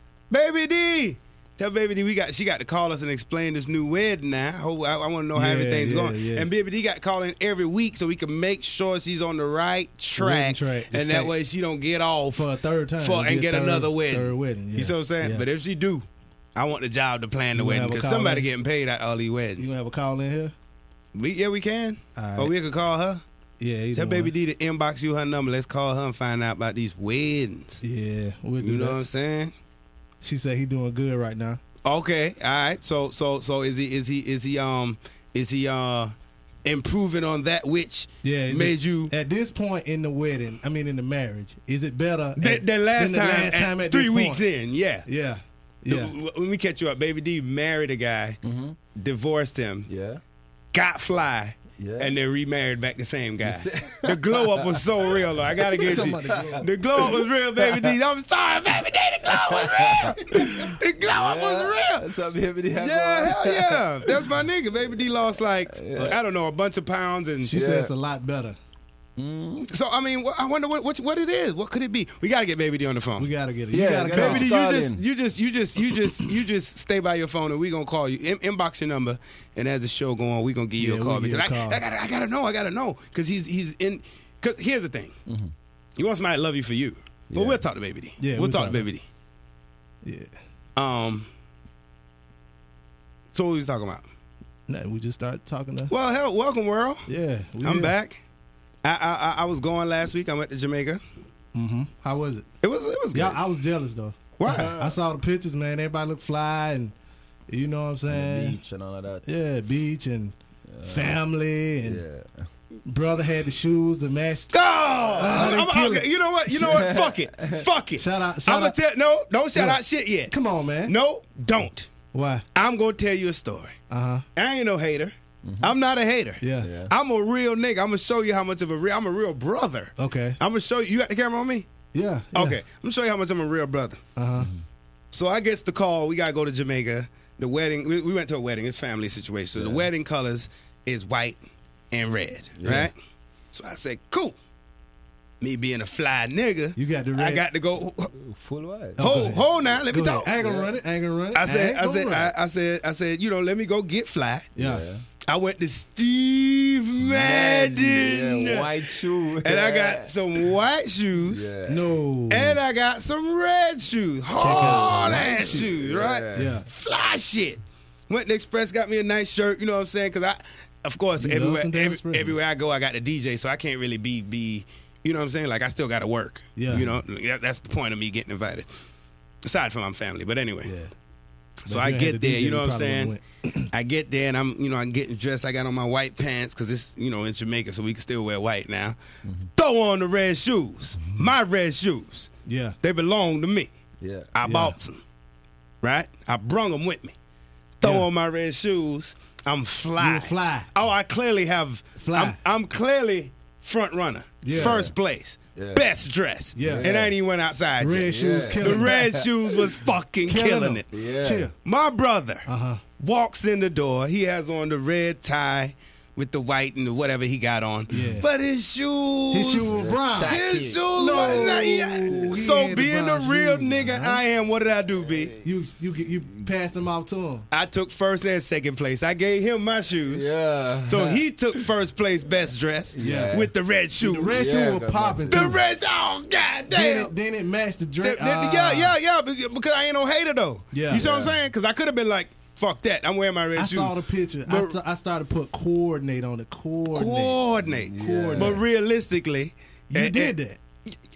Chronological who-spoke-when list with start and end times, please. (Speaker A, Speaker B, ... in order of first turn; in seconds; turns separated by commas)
Speaker A: 0.3-19.6, Speaker B: 5.3-6.5, Speaker B: 10.2-11.3, Speaker B: 12.3-15.4, Speaker B: 17.6-18.5, Speaker B: 19.6-20.5, Speaker A: 21.1-23.2, Speaker B: 22.1-22.5, Speaker B: 23.6-24.3, Speaker A: 23.9-27.8, Speaker B: 27.8-29.0, Speaker A: 28.6-29.5, Speaker B: 30.2-31.6, Speaker A: 31.8-36.1, Speaker A: 36.6-39.1, Speaker B: 38.2-44.4, Speaker A: 42.4-45.0, Speaker B: 45.0-46.1, Speaker A: 45.9-48.4, Speaker C: 48.4-48.8, Speaker A: 48.9-49.9, Speaker C: 49.9-50.2, Speaker A: 50.7-62.1, Speaker C: 51.8-52.1, Speaker C: 53.4-57.9, Speaker B: 55.8-56.7, Speaker C: 59.2-64.3, Speaker A: 62.7-67.6, Speaker C: 65.7-66.2, Speaker B: 67.4-68.6, Speaker C: 67.5-67.9, Speaker C: 69.2-69.7, Speaker A: 69.7-73.3, Speaker B: 73.2-74.5, Speaker C: 73.7-75.0, Speaker A: 74.1-85.1, Speaker B: 80.8-81.8, Speaker C: 85.2-85.5, Speaker A: 86.0-89.0, Speaker C: 87.3-87.6, Speaker B: 88.2-88.8, Speaker B: 90.0-90.3, Speaker A: 90.8-91.3, Speaker A: 93.3-94.0, Speaker B: 94.7-95.9, Speaker A: 95.9-97.1, Speaker B: 97.1-97.9, Speaker A: 97.6-98.2, Speaker A: 98.8-101.0, Speaker B: 101.5-102.5, Speaker A: 102.6-103.4, Speaker B: 103.1-106.9, Speaker A: 104.4-104.7, Speaker C: 104.4-105.0, Speaker B: 107.5-108.6, Speaker C: 108.1-109.3, Speaker B: 109.2-112.0, Speaker C: 110.7-111.2, Speaker C: 111.8-112.5, Speaker B: 112.8-114.5, Speaker A: 114.5-120.3, Speaker B: 115.1-116.1, Speaker C: 116.5-117.7, Speaker B: 118.0-118.8, Speaker B: 119.5-120.9, Speaker A: 120.8-121.9, Speaker B: 122.1-122.4, Speaker A: 122.5-123.8, Speaker B: 123.9-124.2, Speaker A: 124.3-131.7, Speaker C: 125.4-125.8, Speaker B: 126.4-126.7, Speaker C: 126.6-126.9, Speaker B: 130.0-130.4, Speaker B: 131.9-132.6, Speaker A: 132.3-134.0, Speaker B: 134.2-134.5, Speaker C: 134.4-134.6, Speaker A: 135.1-141.4, Speaker C: 139.6-139.9, Speaker A: 141.9-142.9, Speaker C: 142.6-142.9, Speaker A: 143.5-144.4, Speaker A: 145.4-148.1, Speaker B: 146.8-147.4, Speaker C: 148.1-149.1, Speaker B: 149.0-152.3, Speaker A: 149.0-150.3, Speaker C: 150.4-150.7, Speaker A: 151.3-154.5, Speaker B: 154.6-154.8, Speaker C: 154.6-155.0, Speaker A: 155.2-161.5, Speaker C: 157.0-160.5, Speaker C: 161.2-162.0, Speaker B: 161.7-162.6, Speaker A: 162.3-178.7, Speaker B: 164.3-165.8, Speaker C: 164.3-166.6, Speaker B: 166.3-166.7, Speaker B: 171.2-172.3, Speaker B: 176.6-176.9, Speaker A: 179.4-180.7, Speaker B: 180.6-180.9, Speaker A: 181.7-183.1, Speaker B: 181.7-183.7, Speaker A: 183.7-189.0, Speaker C: 189.2-189.5, Speaker A: 189.5-192.3, Speaker B: 192.4-192.8, Speaker A: 192.8-193.7, Speaker C: 194.0-194.3, Speaker A: 194.3-195.0, Speaker B: 194.4-194.8, Speaker A: 195.8-197.2, Speaker A: 197.8-210.9, Speaker B: 197.8-198.1, Speaker B: 200.0-200.7, Speaker B: 202.0-202.4, Speaker B: 204.4-204.8, Speaker C: 204.5-204.9, Speaker C: 205.5-205.9, Speaker B: 206.6-206.9, Speaker C: 206.6-207.1, Speaker B: 207.8-209.0, Speaker C: 208.0-209.3, Speaker B: 210.3-211.5, Speaker C: 210.9-211.5, Speaker A: 211.6-212.5, Speaker B: 212.4-212.8, Speaker A: 213.0-225.3, Speaker B: 217.9-218.2, Speaker C: 217.9-218.2, Speaker B: 219.3-220.4, Speaker C: 219.7-222.5, Speaker B: 220.9-224.2, Speaker C: 225.0-225.5, Speaker B: 225.4-227.4, Speaker A: 227.5-230.3, Speaker C: 230.1-231.6, Speaker A: 230.8-234.5, Speaker C: 232.9-233.5, Speaker B: 233.0-233.4, Speaker B: 234.0-235.6, Speaker C: 234.3-235.6, Speaker A: 235.3-237.1, Speaker B: 236.7-238.9, Speaker A: 238.0-244.8, Speaker B: 240.7-241.0, Speaker C: 240.9-241.4, Speaker B: 243.5-247.4, Speaker A: 246.9-250.3, Speaker C: 247.6-248.6, Speaker B: 247.9-248.6, Speaker B: 249.9-250.6